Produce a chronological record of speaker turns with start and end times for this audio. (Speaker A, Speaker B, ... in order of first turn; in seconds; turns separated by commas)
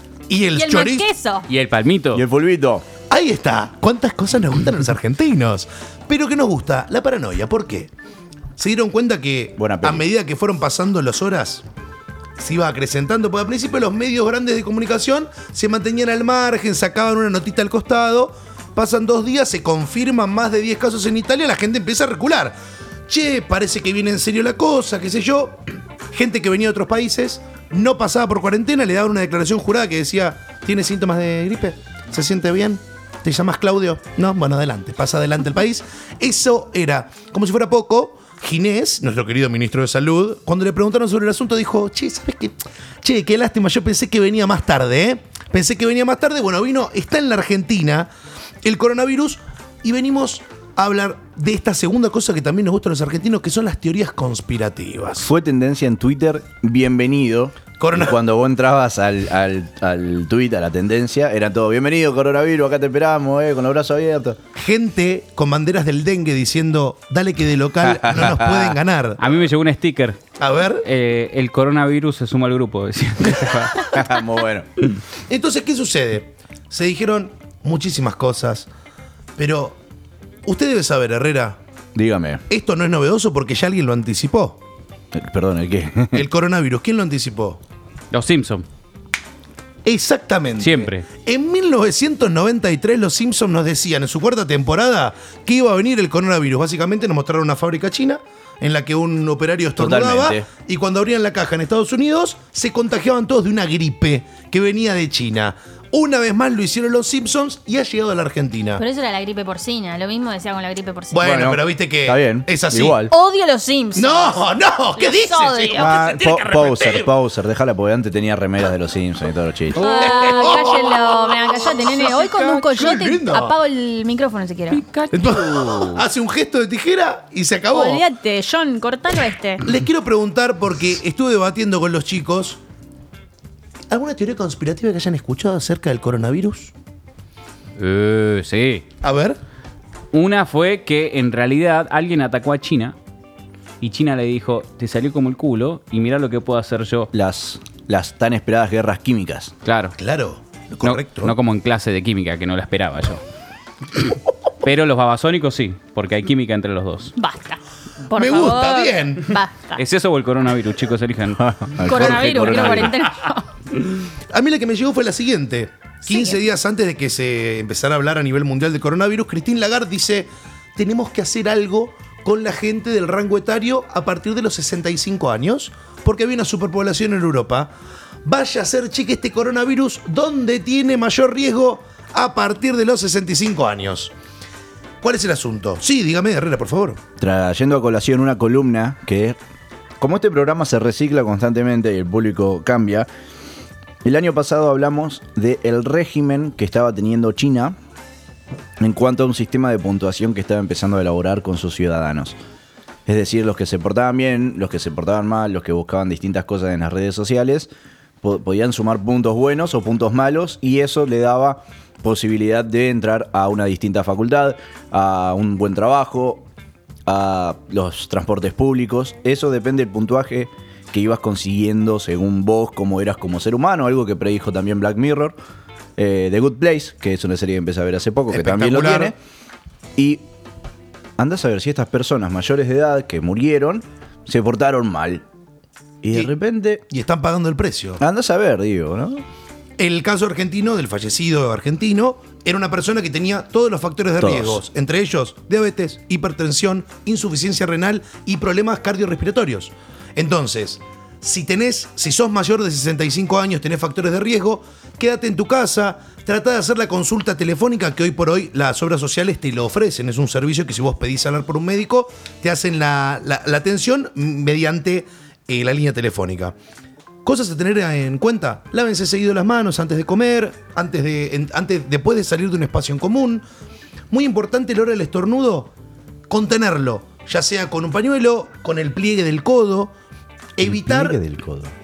Speaker A: 0.3-1.1, Speaker B: 0.6-1.5, Speaker C: 1.5-2.2, Speaker D: 2.1-2.9, Speaker A: 3.1-7.9, Speaker A: 8.6-11.6, Speaker D: 9.6-10.1, Speaker A: 12.4-22.6, Speaker A: 23.1-48.1, Speaker A: 48.6-55.3, Speaker D: 55.2-64.4, Speaker A: 57.8-58.2, Speaker A: 64.6-69.4, Speaker D: 67.8-68.8, Speaker C: 69.2-70.2, Speaker A: 70.4-70.8, Speaker C: 70.8-73.9, Speaker D: 73.9-74.7, Speaker A: 75.3-78.7, Speaker A: 79.4-79.8, Speaker A: 80.5-81.6, Speaker D: 82.0-82.4, Speaker A: 82.5-84.6, Speaker D: 85.1-86.3, Speaker A: 86.1-87.6, Speaker C: 88.1-88.7, Speaker A: 89.8-108.8, Speaker C: 90.6-91.1, Speaker D: 99.8-100.5, Speaker B: 108.8-111.2, Speaker A: 111.1-113.1, Speaker D: 111.2-113.1, Speaker B: 113.1-114.5, Speaker A: 114.0-117.1, Speaker B: 115.0-115.9, Speaker D: 115.8-120.0, Speaker B: 119.8-124.8, Speaker A: 119.8-123.6, Speaker C: 124.7-126.0, Speaker A: 125.1-128.0, Speaker B: 127.7-129.6, Speaker A: 129.7-132.6, Speaker A: 133.9-136.7, Speaker C: 137.8-138.8, Speaker A: 139.0-139.4, Speaker C: 140.1-142.9, Speaker C: 143.8-147.1, Speaker D: 147.1-149.5, Speaker C: 149.7-150.0, Speaker A: 150.0-151.3, Speaker C: 150.8-153.2, Speaker C: 154.6-157.1, Speaker B: 157.2-159.8, Speaker A: 158.1-159.3, Speaker C: 159.8-162.9, Speaker D: 161.4-163.0, Speaker B: 161.8-163.5, Speaker A: 164.3-177.7, Speaker B: 166.1-166.4, Speaker A: 178.2-184.1, Speaker A: 185.0-187.0, Speaker D: 187.2-189.4, Speaker D: 190.0-193.1, Speaker D: 194.0-197.8, Speaker D: 198.8-202.4, Speaker D: 203.1-207.7, Speaker D: 208.2-216.5, Speaker D: 217.1-225.4, Speaker D: 226.0-229.2, Speaker A: 228.3-229.1, Speaker D: 230.0-230.2, Speaker D: 231.2-235.2, Speaker D: 236.0-236.8, Speaker A: 236.9-238.0, Speaker D: 238.0-239.2, Speaker A: 239.8-266.6, Speaker D: 244.2-244.6, Speaker A: 267.2-273.4, Speaker A: 274.1-275.7, Speaker A: 276.3-279.9, Speaker A: 280.6-281.2, Speaker D: 280.6-281.7